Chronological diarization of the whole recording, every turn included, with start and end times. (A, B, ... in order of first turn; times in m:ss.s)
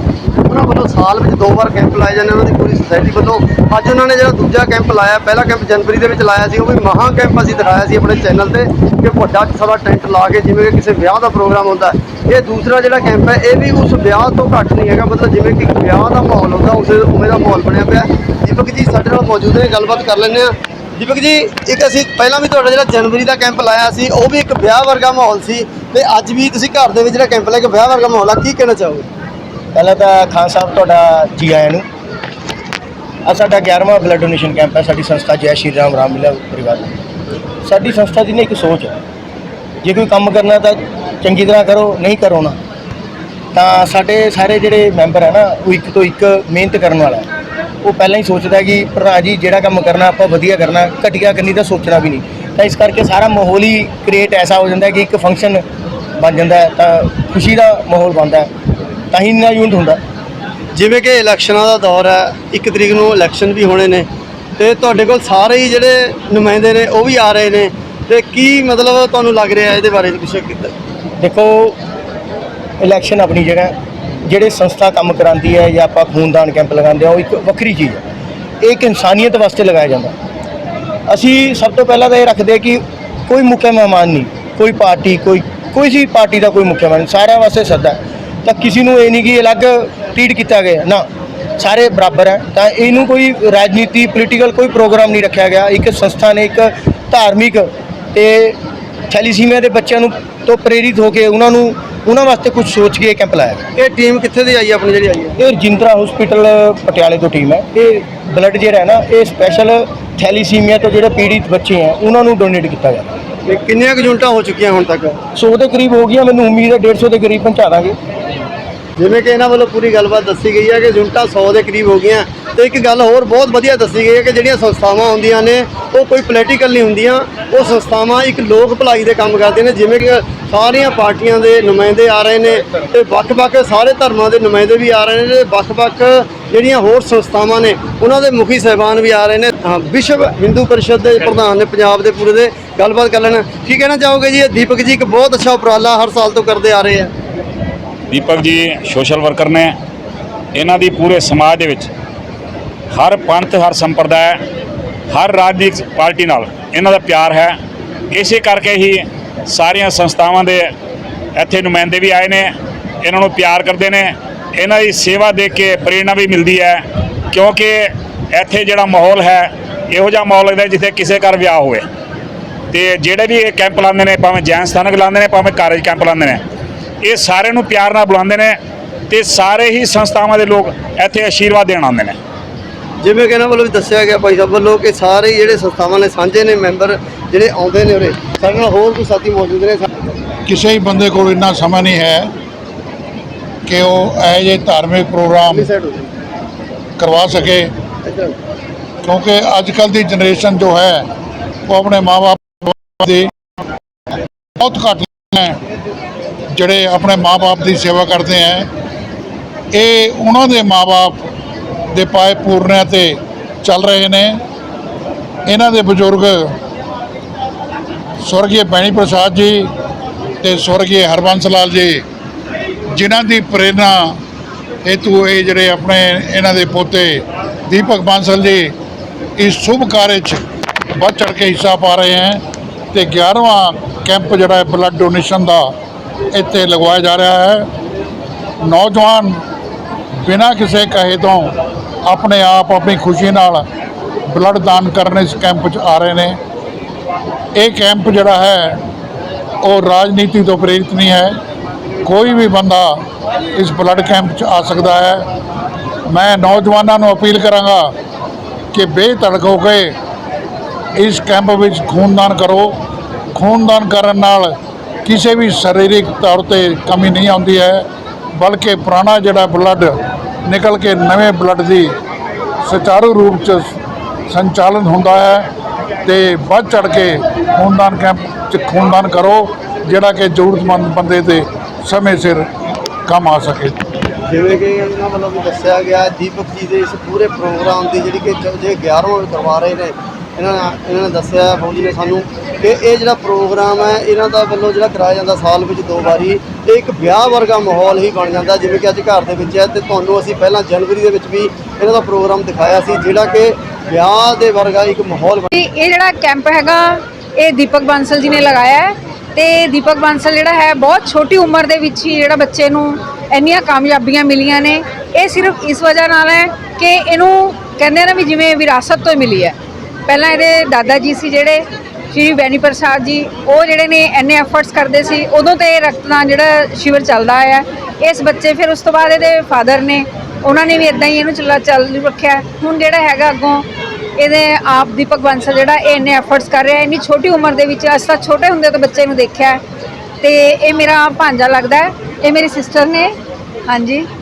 0:00.4-0:29.1 A
0:29.7-0:31.8 B
0:33.2-0:36.9 B
0:37.6-0:39.0 B
0:39.8-0:42.6 B
0:43.5-0:47.3 B
0:47.8-0:55.6 B
0:56.2-0:58.5 B
0:59.1-1:00.0 B
1:00.7-1:04.1 A
1:04.6-1:10.7 A
1:11.2-1:11.8 B
1:12.8-1:13.7 B
1:14.2-1:18.0 B
1:18.6-1:20.1 B
1:21.1-1:31.0 B
1:31.6-1:38.6 B
1:39.1-1:43.6 B
1:43.8-1:45.4 A
1:45.4-1:53.1 B
1:53.4-1:55.2 A
1:55.3-1:58.0 B
1:59.0-2:27.1 A
2:28.1-2:29.7 C
2:30.5-2:31.9 C
2:32.9-2:34.4 C
2:35.1-2:37.6 C
2:38.1-2:40.7 C
2:41.3-2:51.8 C
2:52.7-2:56.4 C
2:57.0-2:58.6 C
2:59.1-3:02.2 C
3:03.0-3:09.9 A
3:10.4-3:12.3 D
3:13.6-3:15.7 D
3:15.4-3:16.1 A
3:17.0-3:17.7 D
3:18.0-3:18.3 A
3:19.0-3:21.0 D
3:21.7-3:23.3 D
3:24.6-3:25.6 D
3:26.5-3:28.7 D
3:29.7-3:31.2 D
3:31.9-3:34.4 D
3:35.5-3:36.4 D
3:38.2-3:39.7 D
3:40.4-3:42.0 D
3:43.0-3:44.2 D
3:44.8-3:48.7 D
3:49.4-3:50.4 D
3:51.0-3:52.4 D
3:52.9-3:55.7 D
3:56.3-3:57.7 D
3:58.6-3:59.4 D
4:00.3-4:01.5 D
4:02.0-4:03.6 D
4:04.3-4:06.4 D
4:07.6-4:08.8 D
4:09.6-4:11.3 D
4:12.0-4:12.9 D
4:13.5-4:15.2 D
4:16.1-4:17.8 D
4:18.7-4:19.9 D
4:21.0-4:22.7 D
4:23.3-4:24.5 D
4:25.0-4:27.8 D
4:28.4-4:29.9 D
4:30.4-4:31.9 D
4:32.6-4:33.7 D
4:34.3-4:35.4 D
4:36.0-4:42.4 D
4:43.1-4:43.8 D
4:44.2-5:05.5 A
5:05.5-5:19.6 E
5:20.1-5:33.6 E
5:34.2-5:39.6 E
5:40.2-5:43.1 E
5:43.7-5:44.0 E